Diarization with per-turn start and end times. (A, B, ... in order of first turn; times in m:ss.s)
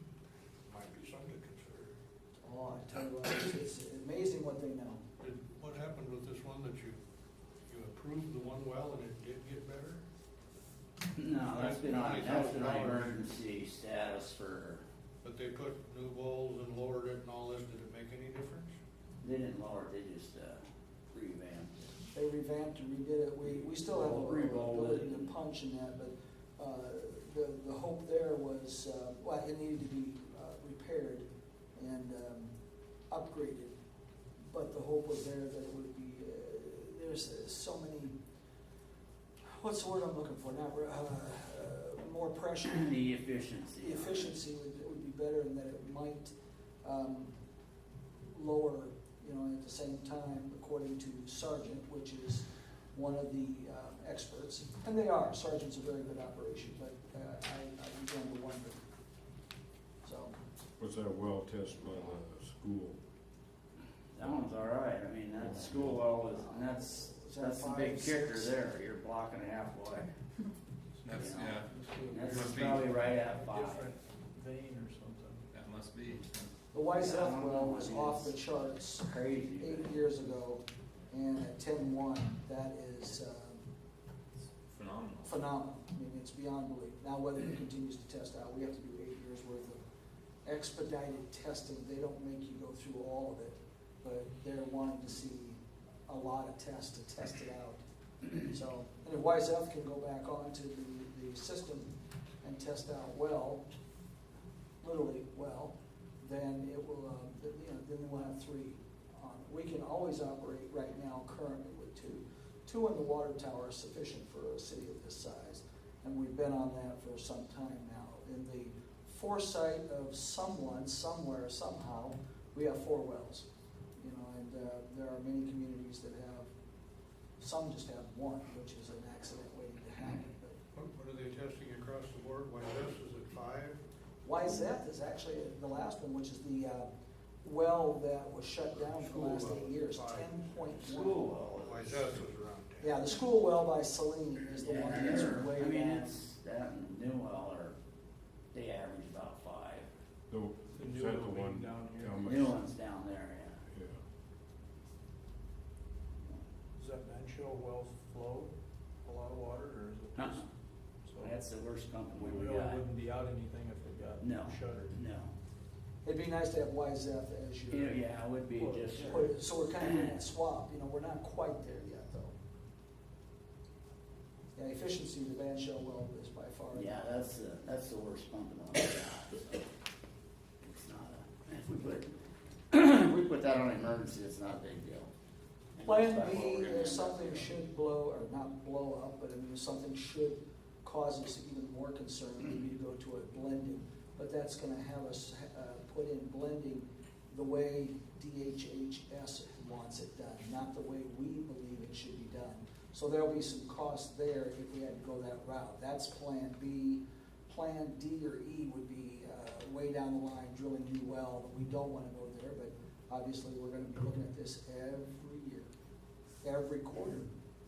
0:00.7-0:01.9 A
0:02.4-0:05.0 B
0:05.2-0:07.0 A
0:07.7-0:10.0 A
0:11.1-0:14.8 C
0:11.5-0:13.2 A
0:15.2-0:18.7 A
0:19.2-0:21.8 C
0:22.1-0:32.5 B
0:23.7-0:25.3 C
0:33.1-0:33.8 B
0:34.5-0:38.2 B
0:39.5-0:42.9 B
0:42.7-0:44.4 C
0:43.8-0:47.4 B
0:48.3-0:58.8 B
1:00.0-1:00.4 B
1:00.8-1:03.0 D
1:04.1-1:10.1 C
1:05.4-1:06.0 D
1:06.3-1:08.6 B
1:11.0-1:15.5 E
1:11.1-1:11.7 F
1:11.1-1:13.9 C
1:12.3-1:12.9 F
1:15.5-1:16.5 F
1:16.7-1:23.6 B
1:17.0-1:18.4 C
1:19.1-1:20.0 C
1:24.7-1:25.4 F
1:25.2-1:29.8 B
1:30.4-1:41.9 B
1:42.4-1:43.6 B
1:44.8-2:06.5 B
2:07.4-2:10.6 B
2:10.7-2:13.8 A
2:14.2-2:16.9 B
2:17.4-2:21.2 B
2:18.8-2:19.2 E
2:19.2-2:20.4 A
2:20.8-2:22.1 C
2:21.6-2:22.9 A
2:22.8-2:26.1 B
2:24.6-2:27.8 C
2:28.5-2:29.9 C
2:30.3-2:32.6 D
2:30.8-2:32.2 E
2:32.2-2:33.6 C
2:33.7-2:34.0 D
2:36.8-2:38.5 E
2:39.0-2:40.4 E
2:40.2-2:40.4 C
2:41.0-2:41.4 E
2:41.2-2:42.8 C
2:42.1-2:45.0 E
2:44.2-2:45.3 C
2:46.0-2:48.0 B
2:47.7-2:50.1 C
2:48.6-2:49.3 E
2:49.0-2:52.4 B
2:54.6-2:57.0 B
2:56.7-2:59.7 C
3:00.6-3:02.2 C
3:02.7-3:05.1 C
3:05.8-3:07.5 C
3:05.8-3:35.7 B
3:36.4-3:37.3 B